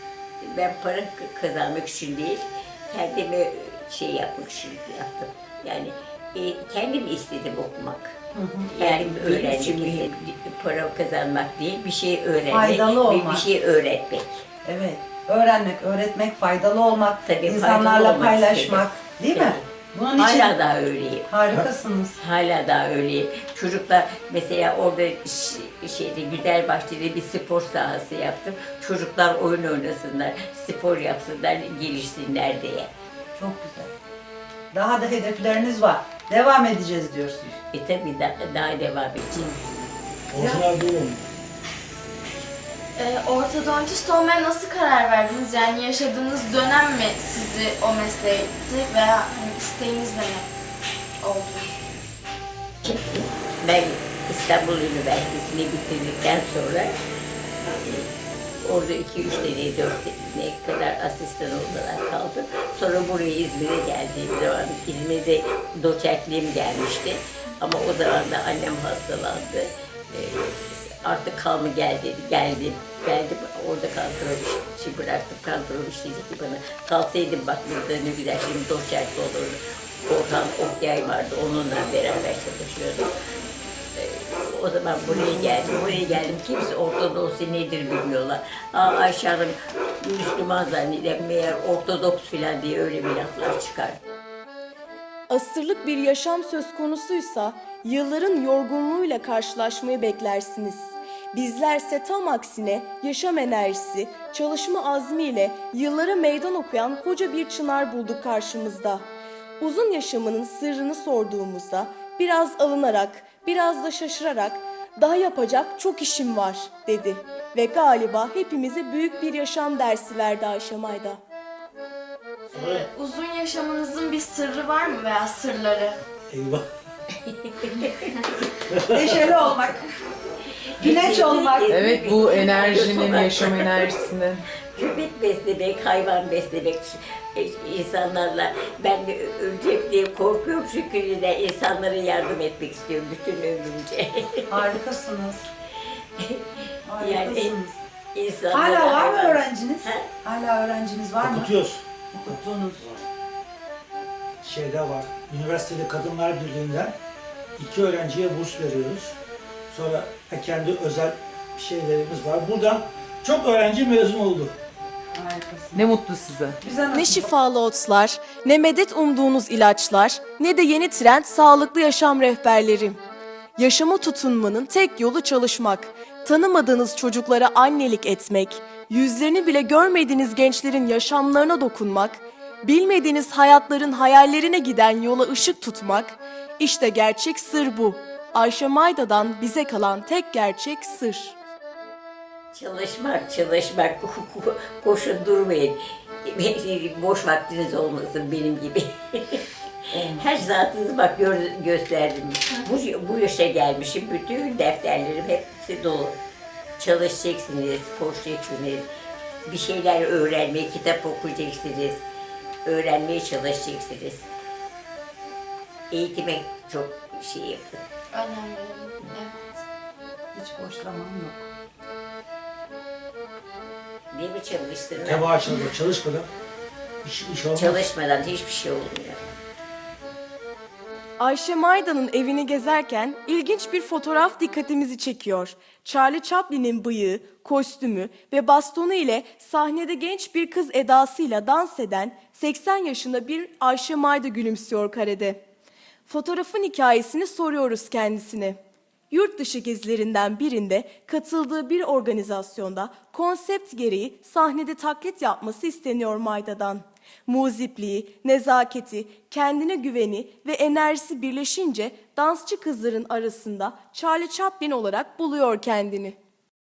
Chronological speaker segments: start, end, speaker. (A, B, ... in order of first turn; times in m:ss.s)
0:00.4-0:08.2 A
0:08.3-0:10.0 B
0:08.7-0:14.4 A
0:12.5-0:13.4 B
0:14.6-0:20.5 B
0:17.2-0:21.3 A
0:21.3-0:22.2 B
0:22.1-0:32.9 A
0:33.3-0:33.9 B
0:34.7-0:37.6 B
0:37.7-0:39.5 A
0:39.4-0:40.6 B
0:40.3-0:41.2 C
0:42.9-0:50.5 D
0:51.2-0:51.8 D
0:52.8-0:56.9 A
0:57.7-0:58.1 A
0:58.6-1:23.1 A
1:24.0-1:34.0 A
1:35.3-1:49.0 E
1:49.6-2:01.2 E
2:02.5-2:06.0 D
2:02.6-2:02.8 C
2:06.3-2:06.6 C
2:07.2-2:08.1 A
2:08.9-2:09.8 B
2:10.8-2:14.0 A
2:10.8-2:11.8 B
2:11.7-2:14.4 F
2:14.7-2:24.4 A
2:24.5-2:25.5 B
2:26.8-2:27.8 B
2:27.0-2:27.6 A
2:28.1-2:30.0 A
2:28.5-2:31.5 B
2:31.2-2:32.3 C
2:32.1-2:32.8 B
2:34.4-2:37.0 C
2:37.6-2:39.2 C
2:39.7-2:44.5 C
2:45.1-2:45.8 B
2:45.7-2:46.6 F
2:46.6-2:47.3 B
2:46.9-2:53.0 E
2:53.6-3:11.4 E
3:12.5-3:19.4 A
3:19.9-3:20.3 B
3:20.1-3:26.2 A
3:26.8-3:28.8 A
3:29.4-3:32.0 A
3:32.6-3:34.3 A
3:35.9-3:37.8 A
3:38.1-3:39.6 D
3:40.3-3:41.4 B
3:44.1-3:45.3 A
3:45.0-3:46.3 C
3:47.0-3:47.8 C
3:47.5-3:49.2 A
3:51.2-4:05.4 E
4:06.1-4:08.6 E
4:09.1-4:26.2 E